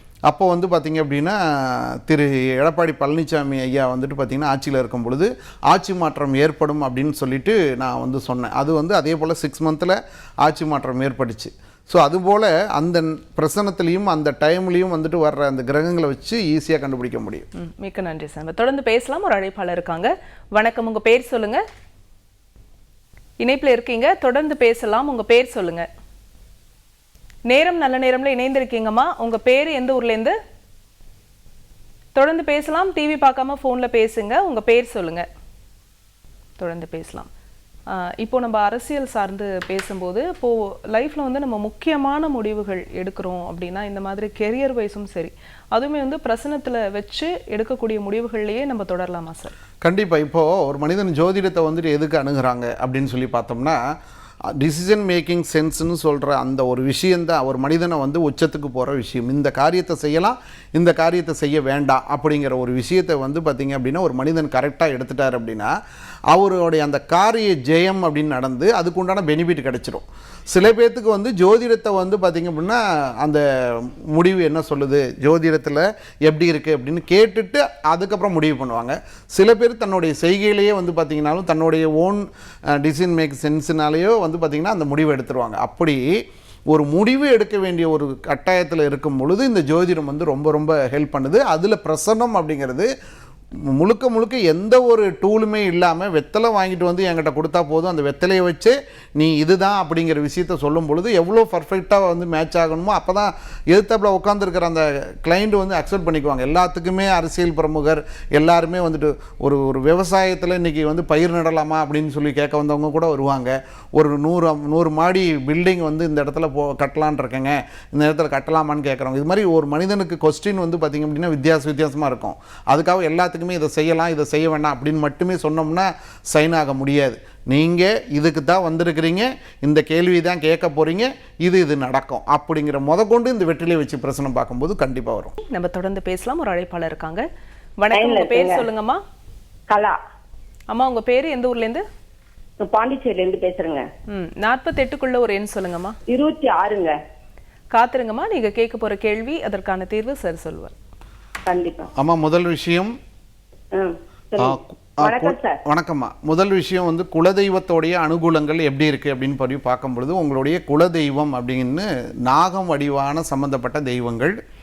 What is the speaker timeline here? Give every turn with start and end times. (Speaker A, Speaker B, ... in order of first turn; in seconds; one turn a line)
Speaker A: 0.3-17.5
Speaker B: 17.6-21.6
Speaker B: 23.4-25.9
Speaker B: 27.5-30.4
Speaker B: 32.2-35.3
Speaker B: 36.6-37.3
Speaker B: 37.9-49.5
Speaker A: 49.8-53.8
Speaker A: 54.6-65.7
Speaker A: 66.3-92.9
Speaker A: 93.7-135.3
Speaker B: 135.4-137.3
Speaker B: 137.8-139.0
Speaker C: 137.9-138.7
Speaker C: 139.7-140.0
Speaker B: 140.7-141.8
Speaker C: 142.6-143.9
Speaker B: 144.1-146.0
Speaker C: 146.1-146.9
Speaker B: 147.7-150.7
Speaker C: 151.5-151.9
Speaker A: 152.0-152.9
Speaker C: 153.7-155.6
Speaker A: 154.4-164.4